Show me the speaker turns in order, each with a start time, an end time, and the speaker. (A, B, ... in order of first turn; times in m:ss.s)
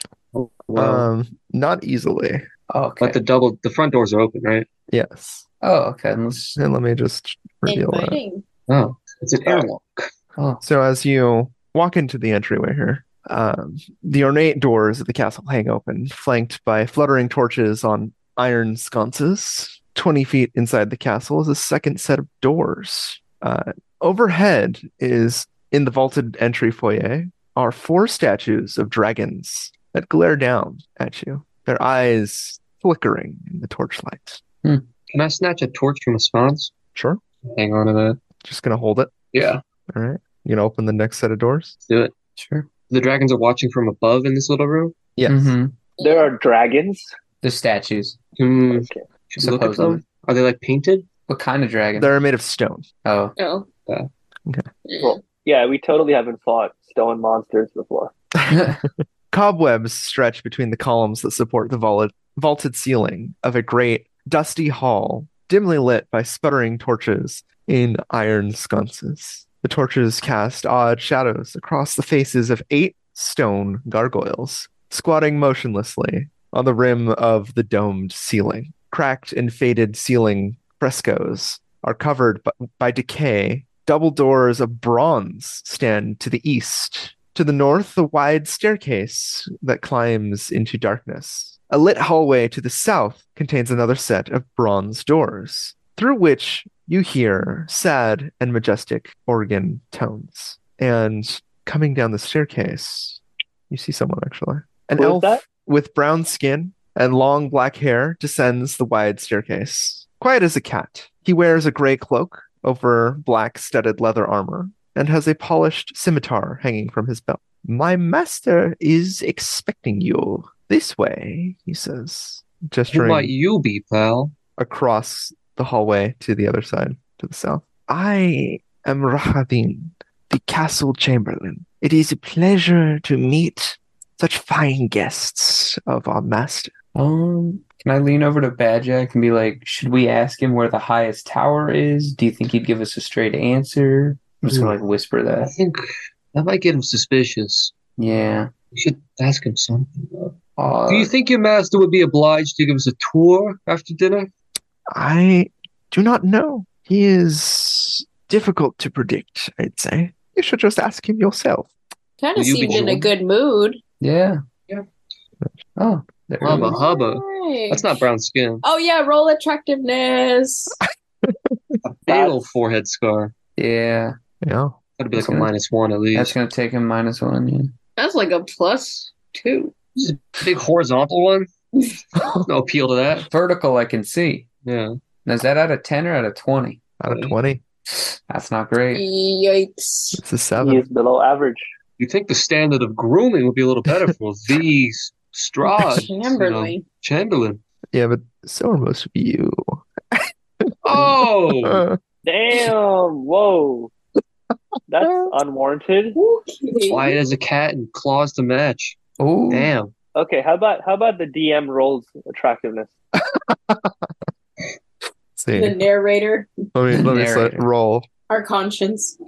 0:00.3-0:01.1 A
0:00.8-0:02.4 B
0:02.7-0:03.2 C
0:03.0-0:04.7 A
0:04.9-0:05.4 B
0:05.6-0:06.6 C
0:06.6-0:08.2 B
0:07.7-0:08.4 D
0:08.7-0:10.1 A
0:10.6-0:34.4 B
0:35.1-0:36.7 A
0:36.9-0:37.2 B
0:37.5-0:38.2 A
0:38.4-0:39.1 B
0:39.3-0:39.6 A
0:39.9-0:41.8 B
0:41.9-0:42.2 A
0:42.4-0:42.7 C
0:42.8-0:45.0 A
0:45.2-0:45.6 B
0:45.3-0:45.8 C
0:46.0-0:46.3 D
0:46.0-0:47.1 E
0:47.4-0:48.2 C
0:48.4-0:51.1 A
0:48.7-0:49.0 E
0:49.4-0:50.1 C
0:51.3-0:52.1 C
0:52.0-0:52.9 B
0:53.0-0:53.3 C
0:53.4-0:53.7 D
0:54.9-0:55.2 D
0:55.0-0:58.1 E
0:58.5-0:58.8 C
0:59.3-2:03.3 B
1:45.0-1:45.4 E
2:02.9-2:04.3 A
2:04.6-2:16.7 B
2:17.0-2:25.6 C
2:24.5-2:24.8 A
2:25.5-2:27.8 A
2:28.0-2:28.5 C
2:28.7-2:30.4 A
2:30.6-2:31.1 C
2:30.9-2:34.3 A
2:34.9-2:41.7 B
2:42.2-2:43.8 D
2:42.4-2:43.1 A
2:44.0-2:44.4 C
2:45.8-2:46.8 C
2:46.4-2:48.6 A
2:46.6-2:48.0 D
2:48.6-2:50.8 D
2:51.2-2:51.5 B
2:51.8-2:53.4 A
2:52.1-2:52.4 E
2:53.6-2:54.2 C
2:54.4-2:54.8 B
2:55.0-2:56.4 A
2:55.2-2:55.5 C
2:56.1-2:57.7 C
2:58.0-2:59.7 D
3:00.0-3:01.5 A
3:02.2-3:02.4 B
3:02.4-3:03.3 A
3:03.3-3:04.5 C
3:04.6-3:05.0 A
3:05.2-3:06.8 C
3:07.0-3:07.6 B
3:07.1-3:07.3 A
3:07.9-3:09.0 C
3:08.9-3:10.2 D
3:10.1-3:10.8 B
3:10.6-3:11.7 E
3:12.0-3:17.6 A
3:15.8-3:16.8 D
3:17.9-3:22.0 B
3:20.8-3:21.8 A
3:22.2-3:23.9 E
3:24.9-3:26.2 E
3:25.0-3:25.3 B
3:26.2-3:27.2 D
3:26.8-3:29.0 A
3:29.2-3:29.7 C
3:29.5-3:29.9 A
3:30.2-3:32.9 E
3:33.2-3:34.1 B
3:35.4-3:35.8 B
3:35.5-3:36.5 D
3:36.8-3:38.1 B
3:36.9-3:37.7 C
3:38.3-3:39.2 D